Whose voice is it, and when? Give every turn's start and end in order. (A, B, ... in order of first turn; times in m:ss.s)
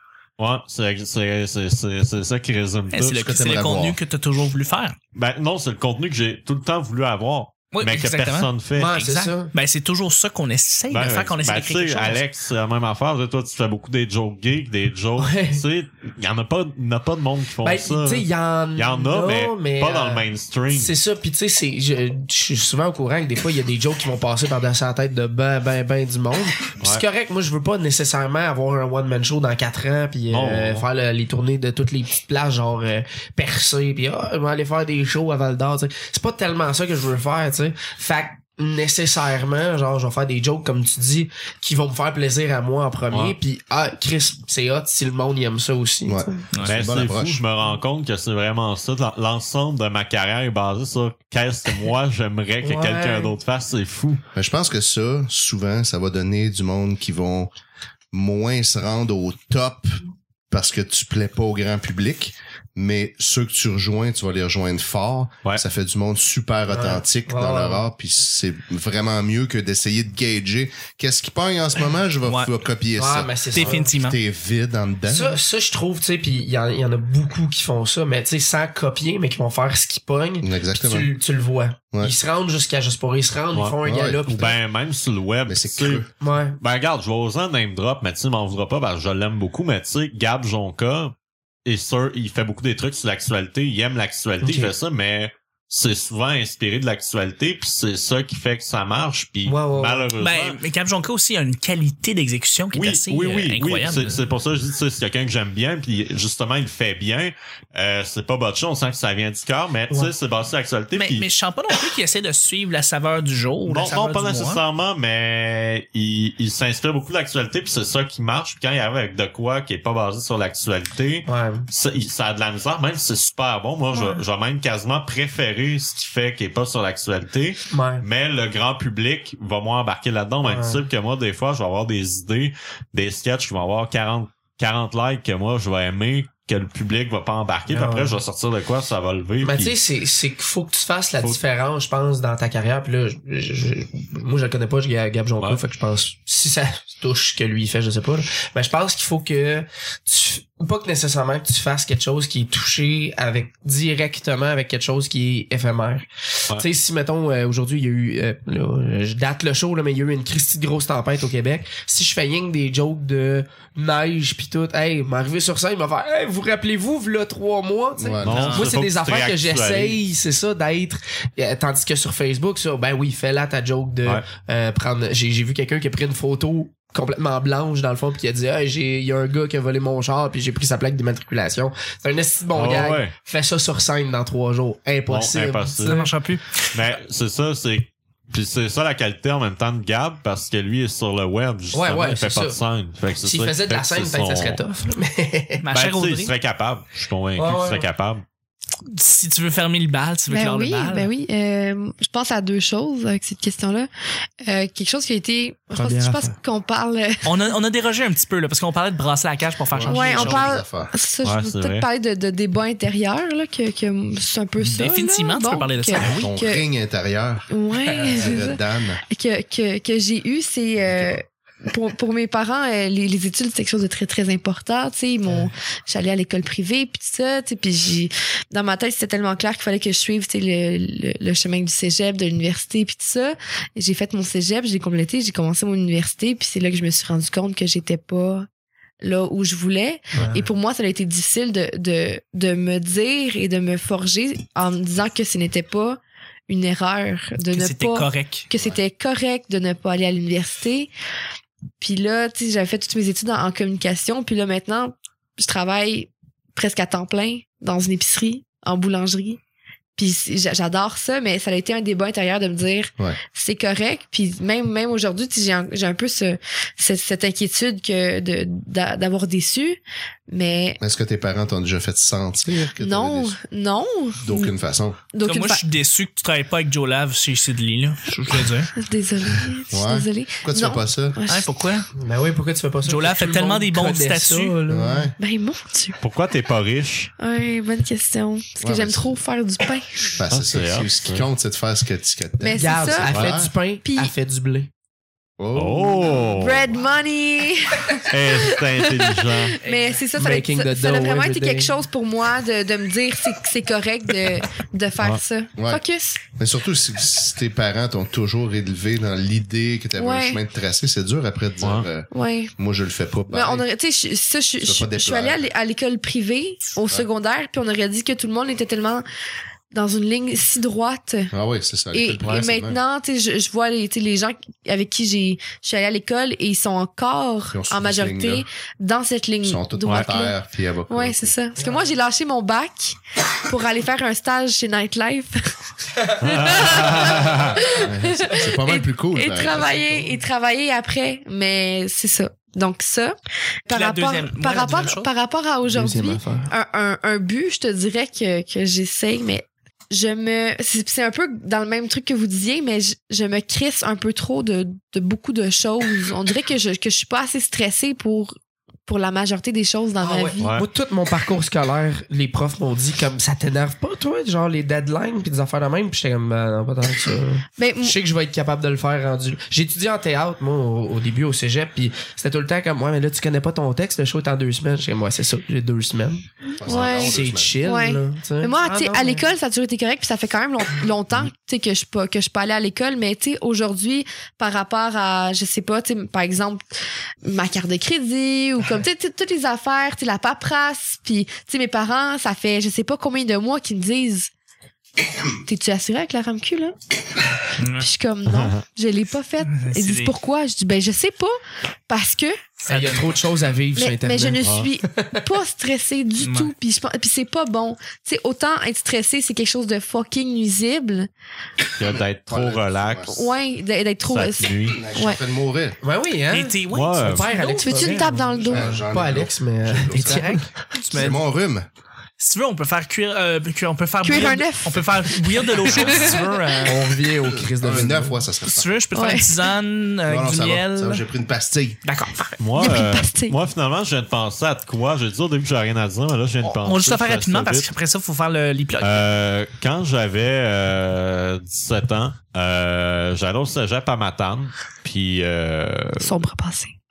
0:00.4-0:03.3 A
0:02.9-0:05.0 B
0:03.1-0:04.0 C
0:05.1-0:08.9 A
0:07.7-0:12.2 B
0:08.7-0:09.5 D
0:10.9-0:20.9 A
0:15.2-0:15.6 D
0:17.6-0:46.5 D
0:30.3-0:30.8 A
0:43.1-0:43.4 A
0:46.1-0:47.4 C
0:46.6-0:54.2 A
0:52.6-0:53.3 D
0:54.3-0:57.5 C
0:58.1-0:59.9 C
1:00.5-1:15.4 C
1:06.7-1:07.8 D
1:12.2-1:12.5 B
1:12.9-1:13.9 D
1:13.5-1:14.2 B
1:15.0-1:24.5 D
1:20.4-1:21.1 C
1:23.5-1:26.1 A
1:23.8-1:24.5 C
1:25.5-1:26.1 C
1:26.2-1:26.6 D
1:26.6-1:40.6 A
1:34.4-1:34.7 D
1:39.4-1:40.1 D
1:40.2-1:44.2 B
1:42.7-1:51.3 A
1:50.9-1:54.6 B
1:53.7-2:19.8 A
2:01.2-2:01.7 D
2:03.9-2:04.2 E
2:07.7-2:08.0 D
2:10.4-2:10.8 D
2:17.7-2:18.2 D
2:19.4-3:06.1 D
2:48.0-2:48.4 C
2:48.2-2:50.0 A
2:48.2-2:48.7 B
3:02.5-3:03.1 A
3:05.1-3:05.9 A
3:05.8-3:06.7 B
3:06.7-3:14.6 A
3:11.7-3:12.6 D
3:13.2-3:15.6 D
3:15.6-3:16.3 B
3:15.7-3:18.2 A
3:17.4-3:17.9 D
3:18.8-3:21.1 B
3:20.3-3:23.9 E
3:24.4-3:27.3 E
3:25.7-3:26.3 D
3:27.2-3:30.5 B
3:29.7-3:30.9 C
3:29.8-3:36.6 E
3:31.2-3:31.9 A
3:34.6-3:36.3 B
3:36.0-3:37.5 C
3:37.5-3:58.5 E
3:37.9-3:38.3 D
3:38.0-3:39.0 C
3:40.8-3:41.2 C
3:45.2-3:45.5 D
3:59.0-4:10.9 E
4:00.1-4:00.5 D
4:07.5-4:08.5 B
4:08.5-4:08.8 C
4:11.8-4:19.4 E
4:20.0-4:30.8 E
4:30.8-4:33.4 C
4:32.8-4:34.5 E
4:34.2-4:35.0 C
4:35.1-4:35.6 E
4:35.2-4:38.7 B
4:38.7-4:41.5 E
4:39.7-4:41.2 C
4:41.3-4:41.9 B
4:42.0-4:45.1 D
4:42.8-4:44.6 B
4:44.7-4:45.2 C
4:45.2-4:46.0 E
4:46.0-4:47.1 A
4:47.2-4:50.2 E
4:48.6-4:49.2 C
4:50.2-4:53.5 C
4:50.3-4:51.3 A
4:52.4-4:54.1 E
4:52.6-4:54.7 D
4:55.4-4:56.3 C
4:55.5-4:56.7 A
4:56.2-5:06.2 E
4:58.1-4:59.6 A
4:59.6-5:00.0 B
5:00.2-5:01.8 D
5:05.6-5:05.8 C
5:06.4-5:13.6 C
5:10.0-5:10.4 E
5:12.1-5:12.5 E
5:13.3-5:19.0 E
5:14.6-5:15.5 C
5:19.7-5:21.3 E
5:21.3-5:22.8 C
5:21.9-5:30.3 E
5:27.5-5:28.4 C
5:29.4-5:31.3 C
5:30.9-5:35.5 E
5:36.2-5:37.6 A
5:36.2-5:43.2 E
5:37.8-5:39.7 C
5:39.3-5:40.2 D
5:43.7-6:00.5 E
5:43.7-5:45.1 B
5:45.7-5:46.5 D
6:00.0-6:19.3 D
6:00.4-6:00.7 A
6:07.6-6:08.0 E
6:16.6-6:26.6 E
6:16.6-6:17.6 C
6:27.2-6:34.3 E
6:35.4-6:36.8 E
6:37.6-6:37.9 B
6:37.8-6:41.4 E
6:38.2-6:38.6 A
6:39.5-6:40.1 B
6:41.9-6:42.5 E
6:42.6-6:44.4 D
6:42.7-6:43.1 B
6:43.8-6:51.1 E
6:44.4-6:44.7 A
6:44.9-6:45.2 D
6:46.2-6:46.5 B
6:51.8-6:53.2 A
6:52.3-6:53.3 C
6:53.1-6:55.2 E
6:54.0-6:54.8 A
6:54.7-6:55.8 C
6:55.8-7:00.5 D
6:56.3-6:57.3 B
6:56.7-6:57.3 A
6:57.3-6:58.8 E
6:58.4-7:00.3 C
6:59.9-7:01.2 B
7:00.9-7:01.7 C
7:02.2-7:06.8 B
7:04.0-7:06.7 E
7:06.6-7:08.2 D
7:07.3-7:08.7 C
7:08.4-7:11.0 B
7:08.9-7:09.4 E
7:10.0-7:11.8 C
7:11.8-7:12.4 B
7:12.4-7:17.7 A
7:12.5-7:13.4 E
7:16.4-7:19.0 B
7:18.8-7:26.2 A
7:26.0-7:26.7 E